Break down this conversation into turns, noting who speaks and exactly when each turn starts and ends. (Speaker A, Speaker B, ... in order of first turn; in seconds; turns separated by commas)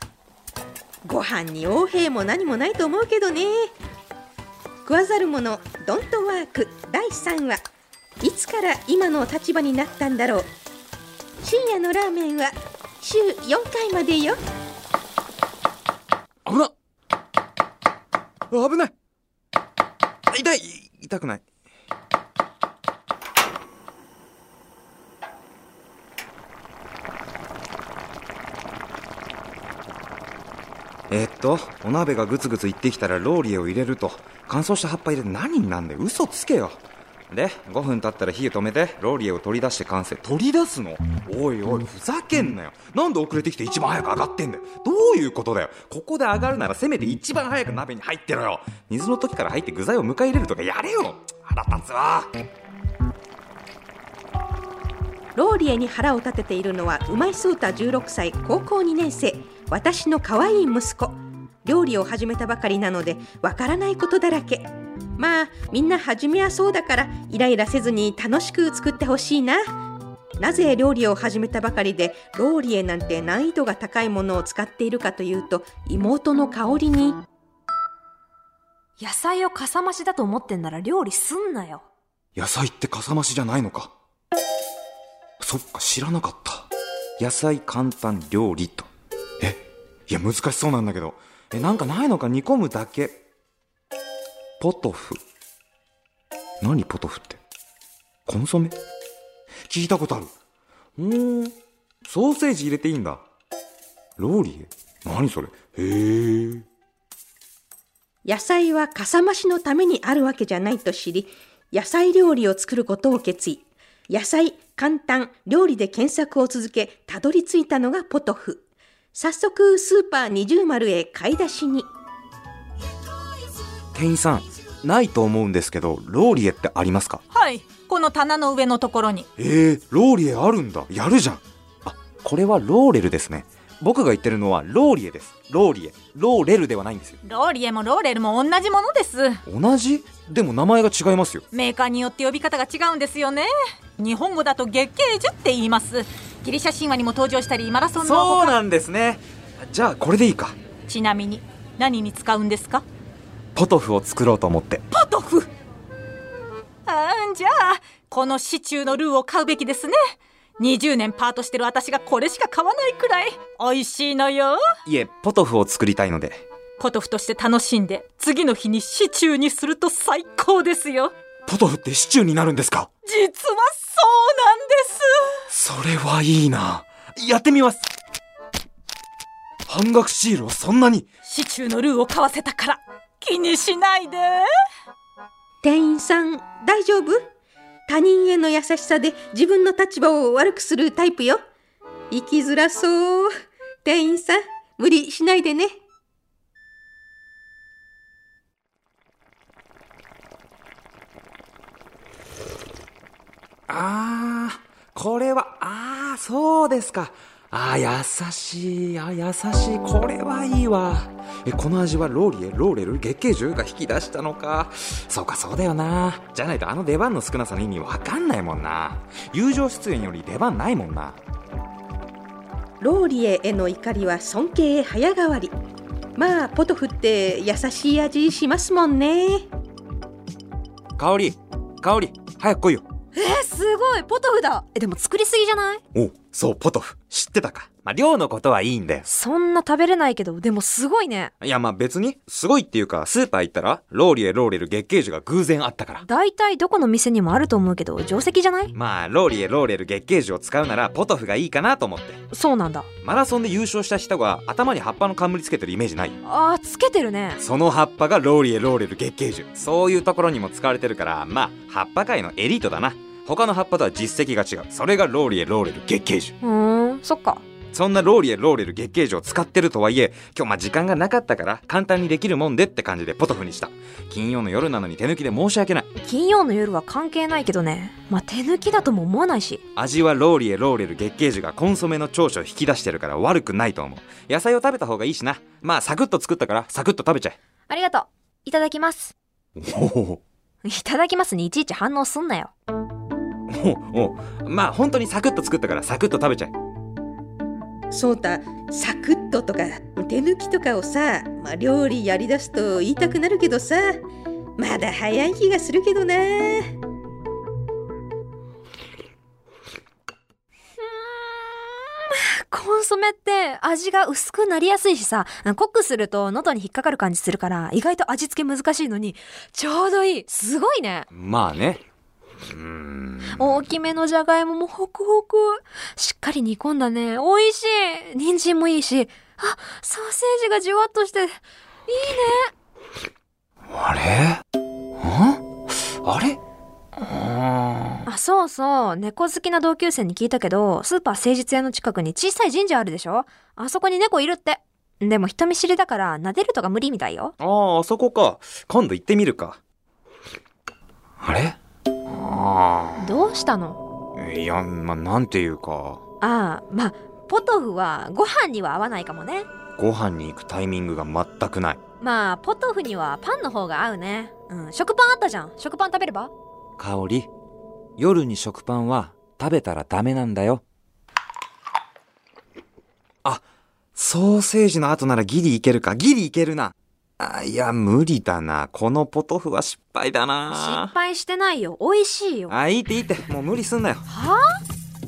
Speaker A: 1.0-3.5, Speaker A: 4.8-7.6, Speaker A: 8.2-10.5, Speaker A: 11.4-14.4, Speaker B: 16.4-16.7, Speaker B: 18.5-18.9, Speaker B: 20.3-21.4, Speaker B: 31.1-36.8, Speaker B: 37.3-52.3, Speaker A: 55.4-69.6, Speaker A: 70.4-77.2, Speaker C: 79.0-81.8, Speaker B: 82.3-83.9, Speaker B: 85.4-86.7, Speaker B: 87.2-88.9, Speaker B: 89.4-93.2, Speaker B: 94.6-95.2, Speaker B: 96.6-97.4, Speaker B: 98.2-98.7, Speaker B: 99.7-100.3, Speaker B: 101.0-101.5, Speaker B: 102.0-103.2, Speaker B: 104.2-106.6, Speaker A: 108.2-118.6, Speaker A: 119.1-121.9, Speaker B: 123.9-127.2, Speaker D: 127.3-129.3, Speaker B: 129.4-137.2, Speaker D: 137.2-139.4, Speaker B: 139.4-141.4, Speaker D: 141.5-148.5, Speaker B: 148.0-150.5, Speaker D: 150.9-152.8, Speaker B: 153.5-154.8, Speaker D: 154.9-155.5, Speaker D: 156.8-160.0, Speaker D: 160.6-164.6, Speaker B: 164.8-166.4, Speaker D: 166.8-171.1, Speaker B: 171.4-172.9, Speaker D: 173.0-175.3, Speaker B: 175.5-177.9, Speaker B: 179.7-181.1, Speaker D: 181.3-184.5, Speaker A: 185.6-187.2, Speaker A: 187.9-191.4, Speaker A: 192.1-193.3, Speaker A: 193.8-195.7, Speaker B: 203.7-221.2, Speaker A: 222.8-225.5, Speaker A: 226.2-229.5, Speaker B: 231.0-232.8, Speaker C: 233.1-235.8, Speaker B: 235.9-239.1, Speaker C: 239.1-241.3, Speaker B: 241.4-246.0, Speaker C: 246.0-248.7, Speaker B: 248.7-252.2, Speaker C: 252.3-252.9, Speaker B: 253.0-256.2, Speaker C: 256.2-257.4, Speaker B: 257.4-266.3, Speaker C: 266.4-267.4, Speaker B: 267.7-275.9, Speaker C: 275.9-279.6, Speaker B: 279.7-287.4, Speaker C: 287.7-289.1, Speaker B: 289.6-290.2, Speaker C: 290.6-292.5, Speaker B: 293.5-296.5, Speaker A: 297.9-304.0, Speaker A: 304.6-306.7, Speaker C: 310.8-321.1, Speaker B: 321.1-321.8, Speaker B: 322.4-323.6, Speaker C: 323.3-332.5, Speaker B: 333.7-334.4, Speaker B: 335.0-335.4, Speaker B: 336.0-336.4, Speaker B: 337.0-338.1, Speaker C: 338.1-347.3, Speaker B: 347.4-349.6, Speaker B: 351.2-353.2, Speaker C: 353.0-353.8, Speaker B: 354.2-356.0, Speaker C: 356.2-359.5, Speaker B: 359.8-361.8, Speaker C: 362.0-366.3, Speaker B: 366.8-367.3, Speaker B: 368.0-370.6, Speaker B: 373.9-380.9, Speaker C: 380.5-382.5, Speaker B: 382.5-384.0, Speaker C: 384.1-384.6